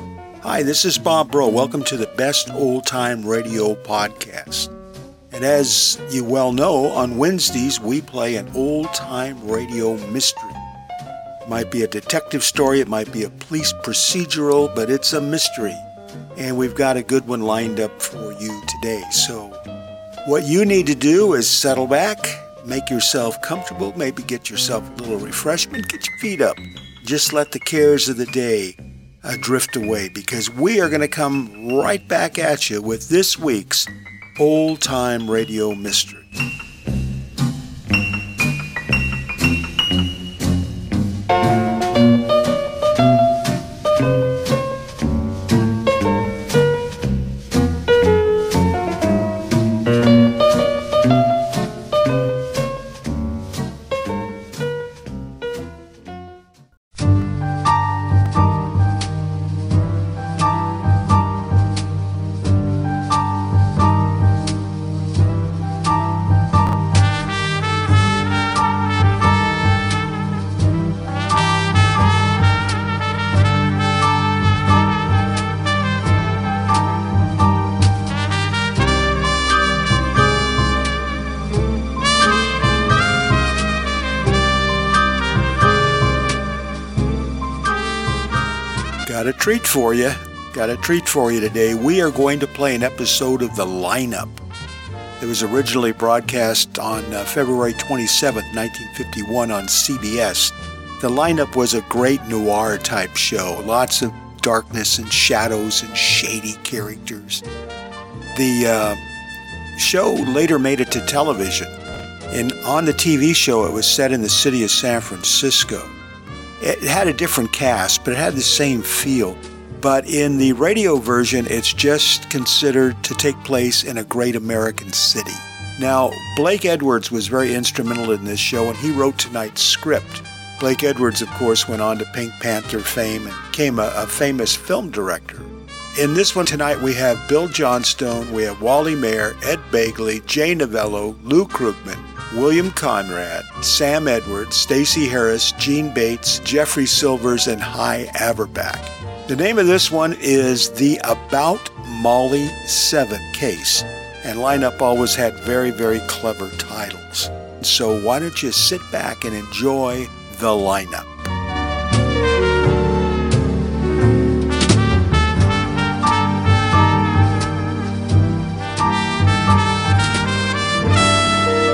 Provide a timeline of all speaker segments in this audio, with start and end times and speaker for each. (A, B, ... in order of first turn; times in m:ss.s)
0:00.4-0:04.7 A
0:05.3-0:10.6 A
0:11.4-0:15.8 A
0:16.4-0:19.6 A
0:20.2-0:36.3 A
1:29.0-1:34.4 A
1:35.2-1:47.4 A
1:48.3-1:49.0 A
1:49.8-1:51.7 A
1:52.3-1:55.9 A
1:56.6-2:41.3 A